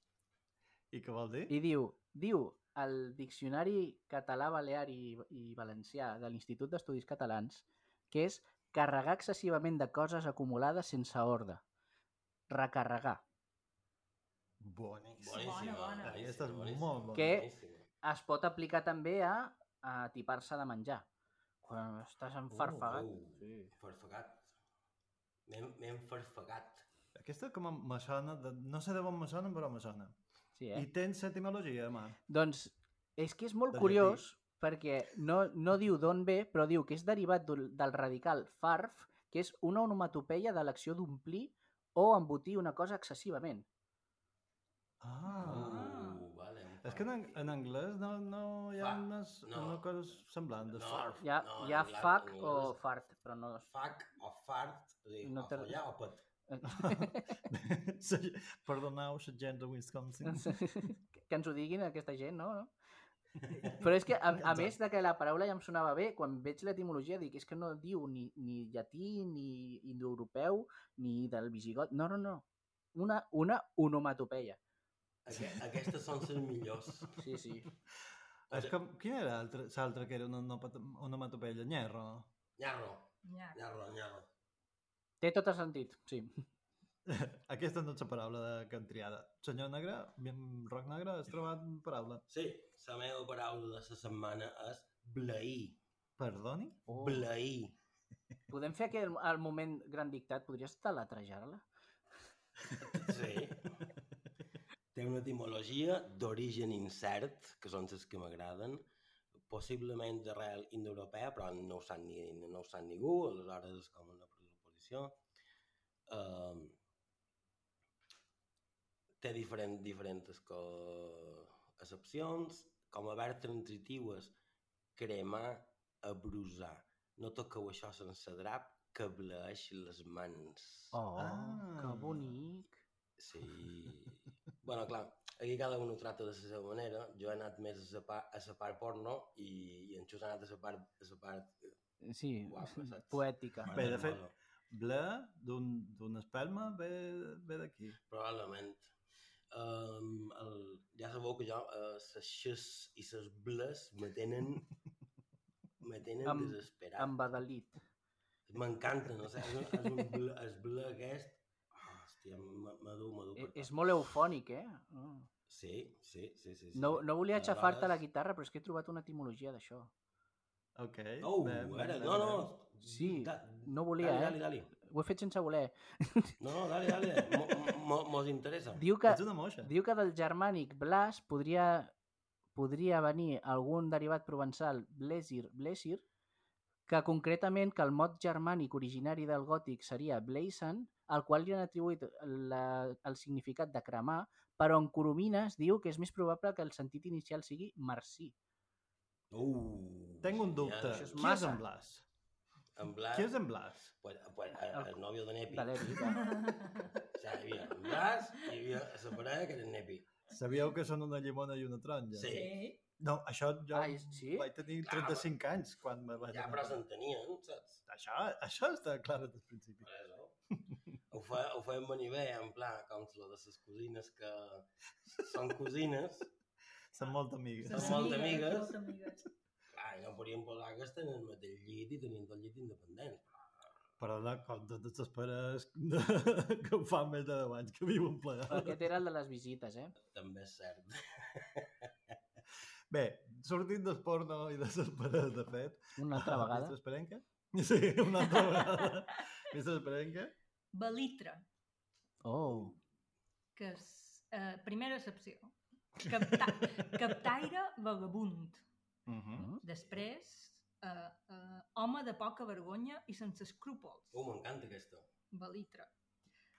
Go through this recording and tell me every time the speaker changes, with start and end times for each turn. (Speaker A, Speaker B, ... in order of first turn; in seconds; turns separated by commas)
Speaker A: 0.9-1.5, Speaker B: 1.5-11.6, Speaker B: 12.5-13.2, Speaker A: 14.6-17.4, Speaker C: 15.2-17.9, Speaker D: 15.3-16.2, Speaker B: 17.1-17.5, Speaker B: 18.0-21.1, Speaker B: 21.6-23.7, Speaker C: 22.7-24.5, Speaker C: 25.5-26.9, Speaker A: 27.1-30.1, Speaker B: 30.6-30.9, Speaker A: 30.7-32.2, Speaker B: 32.3-43.7, Speaker A: 33.7-34.2, Speaker A: 45.0-46.0, Speaker D: 45.3-46.2, Speaker C: 45.4-47.6, Speaker A: 46.8-51.2, Speaker C: 48.8-49.8, Speaker C: 50.7-52.8, Speaker B: 51.2-53.7, Speaker C: 53.7-56.2, Speaker B: 55.2-55.8, Speaker B: 56.5-57.4, Speaker A: 56.7-60.6, Speaker B: 60.2-62.7, Speaker A: 63.5-63.8, Speaker B: 63.8-74.6, Speaker A: 64.4-64.8, Speaker C: 75.2-77.2, Speaker B: 77.2-77.7, Speaker C: 78.5-78.8, Speaker A: 78.5-82.3, Speaker C: 82.6-84.3, Speaker D: 83.2-83.6, Speaker B: 85.2-86.4, Speaker A: 87.1-92.2, Speaker C: 92.3-95.8, Speaker A: 96.2-96.9, Speaker B: 96.9-97.3, Speaker C: 97.0-97.8, Speaker B: 98.5-101.7, Speaker C: 103.0-103.7, Speaker C: 104.9-108.8, Speaker C: 109.5-115.2, Speaker C: 116.1-116.8, Speaker C: 119.2-124.3, Speaker C: 125.0-131.0, Speaker B: 130.9-132.8, Speaker A: 131.2-132.3, Speaker C: 133.2-141.8, Speaker B: 142.0-143.8, Speaker C: 142.5-144.3, Speaker A: 143.7-148.0, Speaker C: 148.1-148.9, Speaker C: 149.5-154.6, Speaker C: 155.8-157.1, Speaker B: 156.2-157.8, Speaker C: 158.5-163.9, Speaker B: 163.4-165.3, Speaker C: 165.5-168.0, Speaker B: 166.8-169.9, Speaker A: 170.8-172.5, Speaker C: 171.2-174.7, Speaker B: 172.8-176.3, Speaker C: 176.4-178.8, Speaker B: 178.8-181.9, Speaker A: 179.1-179.7, Speaker B: 182.6-186.0, Speaker B: 186.9-198.3, Speaker C: 199.3-201.3, Speaker A: 200.2-202.1, Speaker B: 200.9-201.6, Speaker C: 202.7-203.3, Speaker A: 203.1-203.9, Speaker C: 204.0-206.0, Speaker B: 205.5-206.2, Speaker D: 206.0-206.9, Speaker C: 207.1-210.1, Speaker A: 210.3-212.5, Speaker C: 212.1-212.5, Speaker D: 212.3-212.8, Speaker A: 213.0-216.8, Speaker B: 213.7-214.5, Speaker C: 214.8-215.3, Speaker C: 216.3-217.8, Speaker A: 217.9-219.9, Speaker C: 219.8-220.3, Speaker C: 221.1-226.3, Speaker A: 226.9-228.2, Speaker D: 227.6-229.3, Speaker C: 227.7-228.8, Speaker C: 229.7-233.7, Speaker A: 234.0-238.9, Speaker B: 238.5-239.9, Speaker C: 240.0-242.2, Speaker A: 242.9-250.3, Speaker B: 246.0-246.8, Speaker D: 250.7-251.4, Speaker B: 252.2-252.8, Speaker D: 253.6-258.6, Speaker A: 256.1-257.1, Speaker A: 259.1-259.5, Speaker D: 259.6-264.1, Speaker C: 264.1-265.1, Speaker D: 265.3-265.9